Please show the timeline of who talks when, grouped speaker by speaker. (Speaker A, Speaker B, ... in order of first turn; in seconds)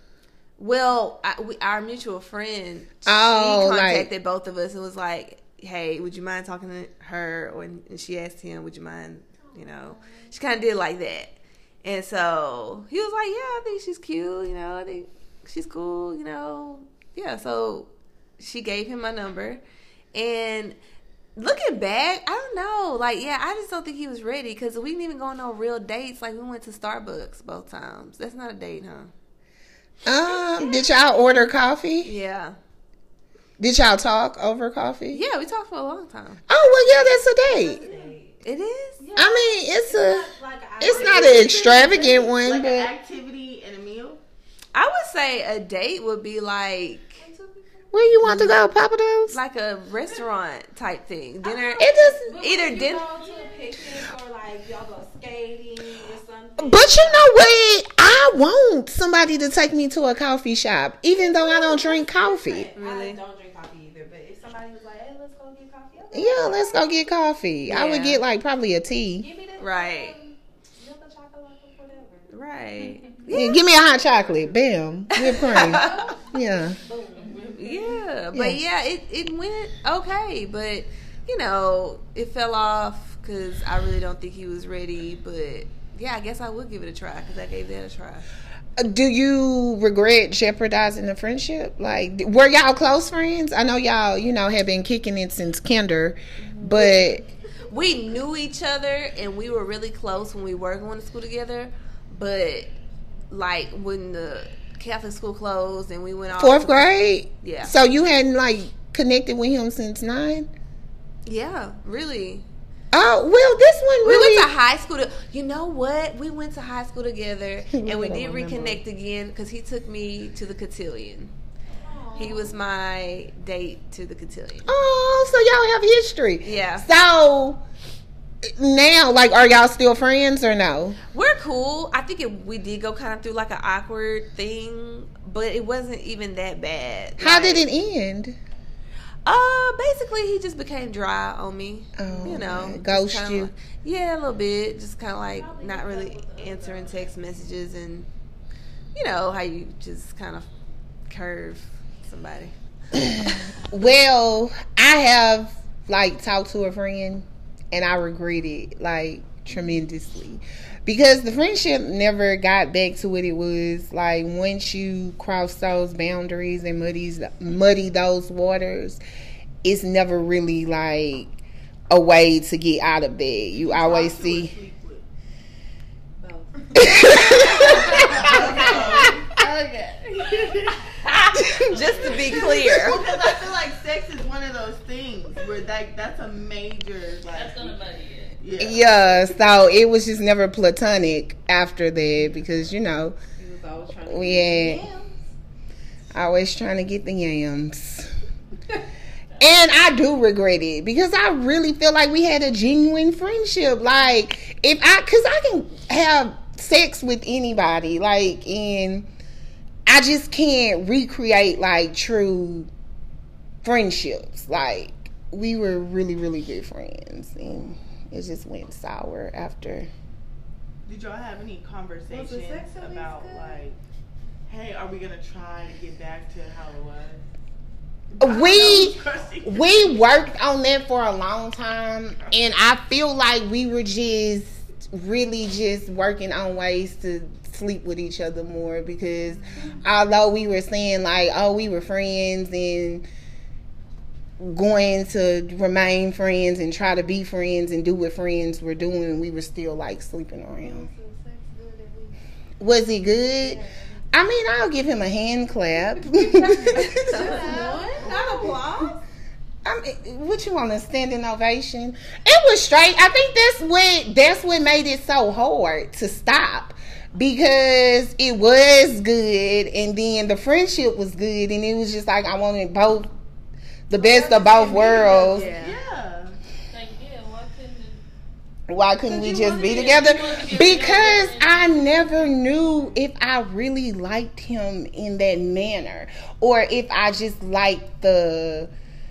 Speaker A: 0.6-19.6, 20.1-20.8, 21.4-29.1, 32.0-32.6, 35.1-36.4, 37.9-39.0, 44.7-47.2, 48.2-48.5, 49.3-53.4, 62.8-63.2, 67.7-68.2, 69.6-70.1, 72.3-73.9, 75.2-76.0, 77.5-88.3, 96.4-97.0, 97.7-102.7, 103.3-106.9, 107.4-107.7, 111.3-112.5, 114.0-121.3, 122.2-124.7, 126.4-126.9, 131.1-137.6, 139.2-148.1, 148.9-150.5, 151.1-152.5, 181.0-183.1, 275.0-275.8
Speaker B: 3.0-4.1, 30.1-32.1, 33.6-35.2, 36.5-37.8, 39.1-42.9, 47.9-49.4, 51.8-52.2, 56.6-62.7, 66.1-69.3, 73.3-76.8, 78.3-78.6, 88.8-97.3, 106.4-110.5, 112.9-114.5, 117.7-118.8, 124.7-127.6, 128.4-131.0, 137.2-138.4, 141.9-143.5, 152.9-169.0, 169.6-171.3, 171.9-174.5, 176.8-178.3, 188.6-193.2, 194.1-194.9, 196.1-198.1, 199.4-209.1, 209.9-212.7, 213.6-219.9, 228.2-243.1, 244.4-250.9, 252.6-258.6, 259.6-273.1, 273.9-275.5, 278.7-288.7
Speaker C: 36.6-38.4, 39.0-42.3, 47.2-48.5, 51.4-57.3, 61.1-66.9, 69.2-72.3, 75.5-78.0, 121.8-122.5, 142.1-142.4, 145.3-147.2, 176.2-179.1, 193.4-195.2, 222.1-223.6, 250.6-252.2, 253.4-254.0, 256.1-259.0, 273.9-275.7
Speaker D: 42.2-44.2, 173.5-175.1, 177.4-180.8, 181.8-187.8, 188.4-189.2, 220.9-223.8, 224.5-227.3, 228.2-230.1, 274.7-276.4
Speaker E: 187.3-188.4, 276.7-278.0, 279.1-282.5